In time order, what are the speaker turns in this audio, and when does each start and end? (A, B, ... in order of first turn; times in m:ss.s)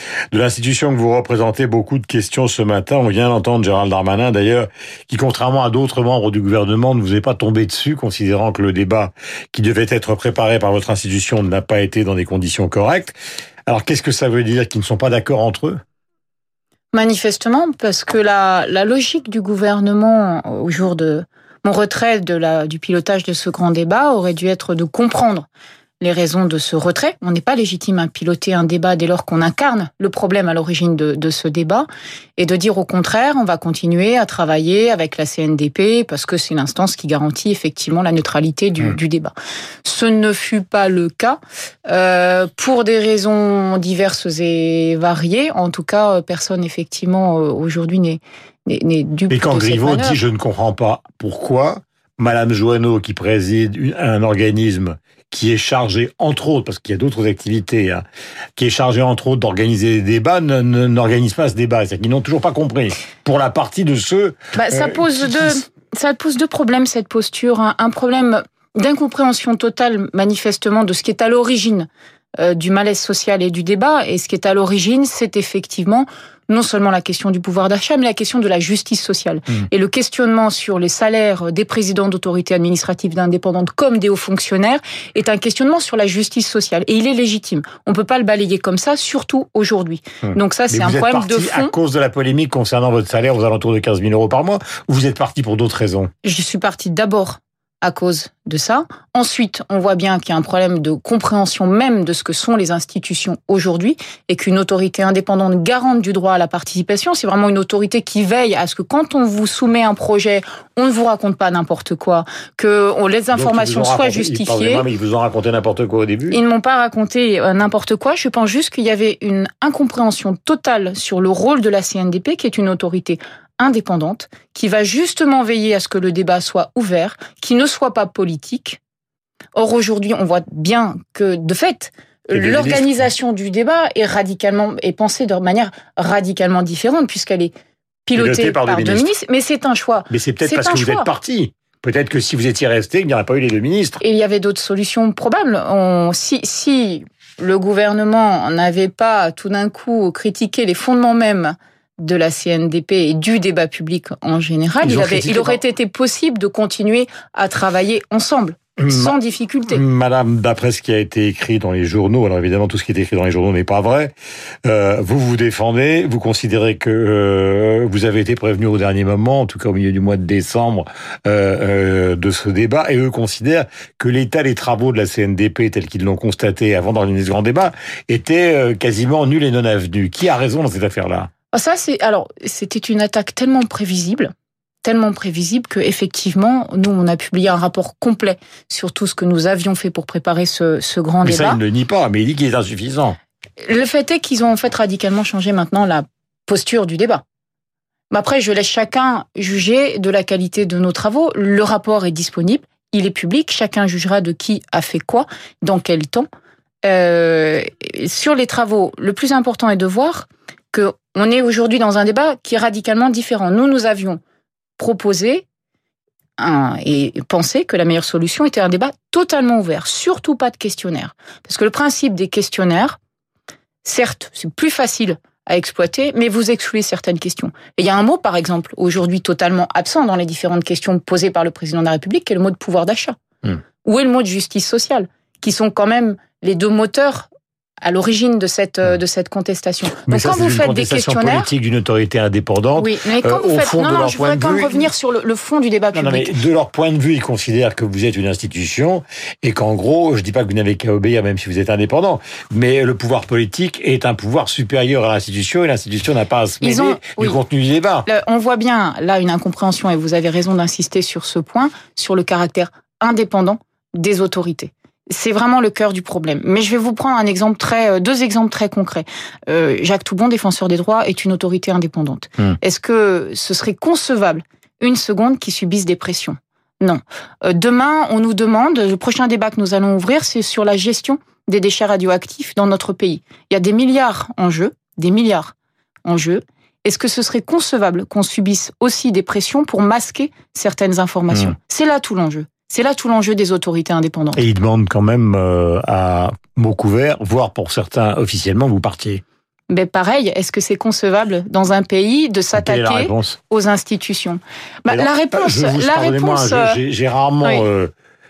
0:00.3-0:13.2 A
0:13.7-0:15.8 A
0:16.9-0:25.5 B
0:26.0-0:39.3 B
0:39.8-0:50.2 B
0:49.3-0:58.0 A
0:58.6-1:05.4 A
1:04.5-1:31.8 B
1:30.2-1:36.1 A
1:36.2-1:54.9 B
1:53.3-1:56.4 A
1:56.3-2:08.8 B
2:09.6-2:17.5 B
2:12.3-2:13.1 A
2:18.1-2:21.1 B
2:18.2-2:19.1 A
2:20.1-2:24.0 A
2:24.0-2:39.8 B
2:34.8-2:35.6 A
2:38.8-2:39.2 A
2:39.7-2:44.1 A
2:44.6-3:01.3 A
3:01.5-3:04.3 B
3:04.8-3:11.6 B
3:11.2-3:13.2 A
3:13.6-3:17.2 B
3:18.1-3:26.3 B
3:26.8-3:34.2 B
3:34.8-3:35.4 B
3:36.4-3:43.0 B
3:43.8-3:53.2 B
3:53.8-3:57.3 B
3:57.8-4:01.5 B
4:00.1-4:04.9 A
4:02.8-4:06.3 B
4:05.9-4:18.1 A
4:16.6-4:17.4 B
4:18.1-4:45.5 B
4:46.0-4:54.4 B
4:54.4-4:59.2 A
4:59.7-5:06.8 B
5:02.6-5:03.4 A
5:04.9-5:07.9 A